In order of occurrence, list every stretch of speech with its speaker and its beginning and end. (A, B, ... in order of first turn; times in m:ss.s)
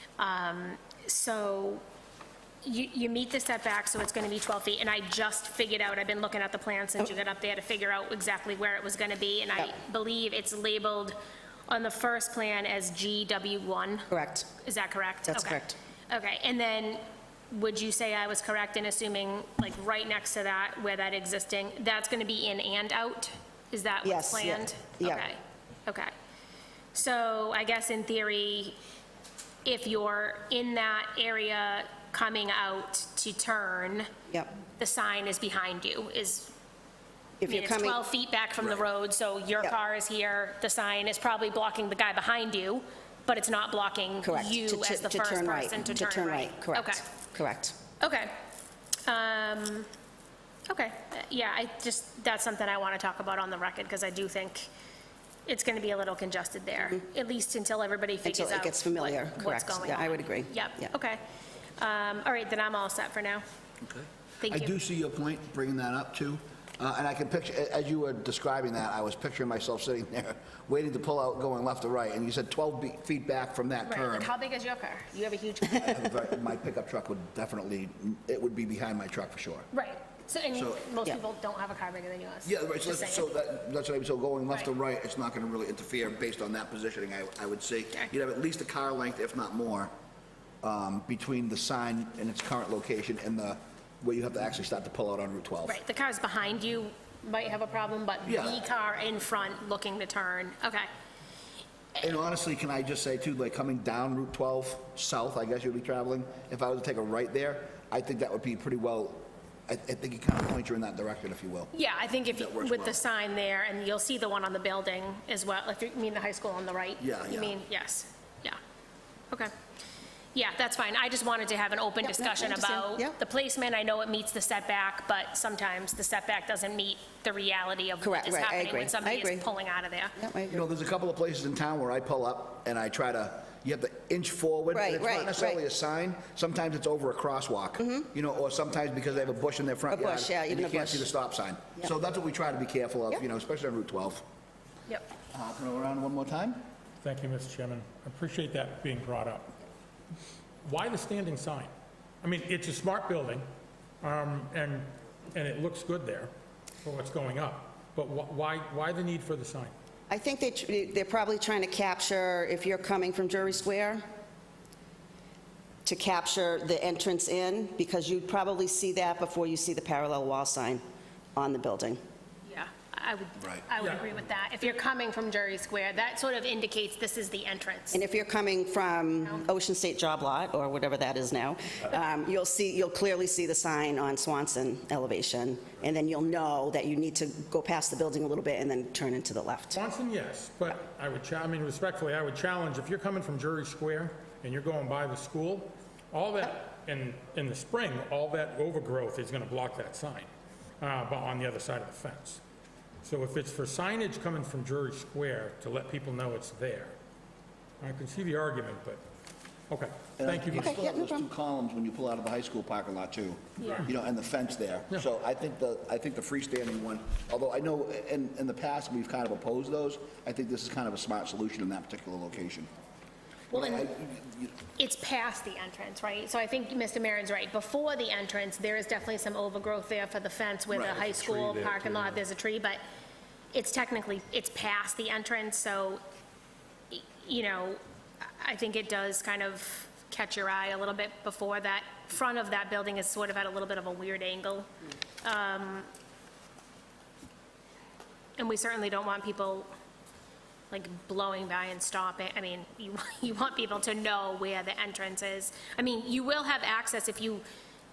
0:00.2-0:01.8 A
0:02.6-0:11.2 A
0:11.7-0:26.1 A
0:14.1-0:14.5 B
0:15.3-0:15.8 B
0:24.0-0:25.2 B
0:26.9-0:28.8 A
0:29.6-0:34.1 A
0:34.8-0:36.5 A
0:37.4-0:38.0 B
0:37.4-0:47.0 A
0:44.2-0:47.8 B
0:48.0-0:48.3 A
0:49.0-0:49.9 A
0:50.7-0:54.7 A
0:55.4-1:01.2 A
0:58.2-1:00.9 B
1:01.8-1:03.4 A
1:03.8-1:14.3 C
1:04.4-1:04.7 A
1:13.8-1:16.0 A
1:15.7-1:19.7 C
1:19.7-1:23.3 A
1:20.5-1:20.9 C
1:22.4-1:29.9 C
1:30.6-1:35.8 C
1:35.6-1:40.9 A
1:38.2-1:38.6 C
1:42.0-1:51.7 C
1:51.7-1:58.6 A
1:52.3-1:53.0 C
1:57.0-1:57.6 C
2:00.3-2:10.2 A
2:02.0-2:03.1 B
2:08.0-2:09.5 B
2:10.2-2:10.7 B
2:10.5-2:24.2 C
2:14.7-2:15.6 B
2:17.8-2:18.1 B
2:19.9-2:21.1 B
2:25.3-2:26.6 C
2:27.0-2:29.5 D
2:30.6-2:31.7 D
2:32.2-2:33.4 D
2:34.0-2:36.3 D
2:36.8-2:39.7 D
2:40.1-2:44.0 B
2:45.8-2:50.8 B
2:51.3-2:52.0 B
2:52.4-2:58.0 A
2:57.9-3:09.8 B
3:09.7-3:22.4 D
3:23.0-3:26.9 D
3:27.8-3:29.0 D
3:29.7-3:30.8 D
3:30.2-3:42.7 C
3:30.6-3:31.3 B
3:43.5-3:44.6 C
3:43.5-3:43.9 A
3:44.8-3:52.8 A
3:50.7-3:52.1 C
3:53.5-3:56.0 A
3:56.9-4:04.7 A
4:05.2-4:05.9 A
4:08.4-4:09.7 A
4:10.7-4:17.4 A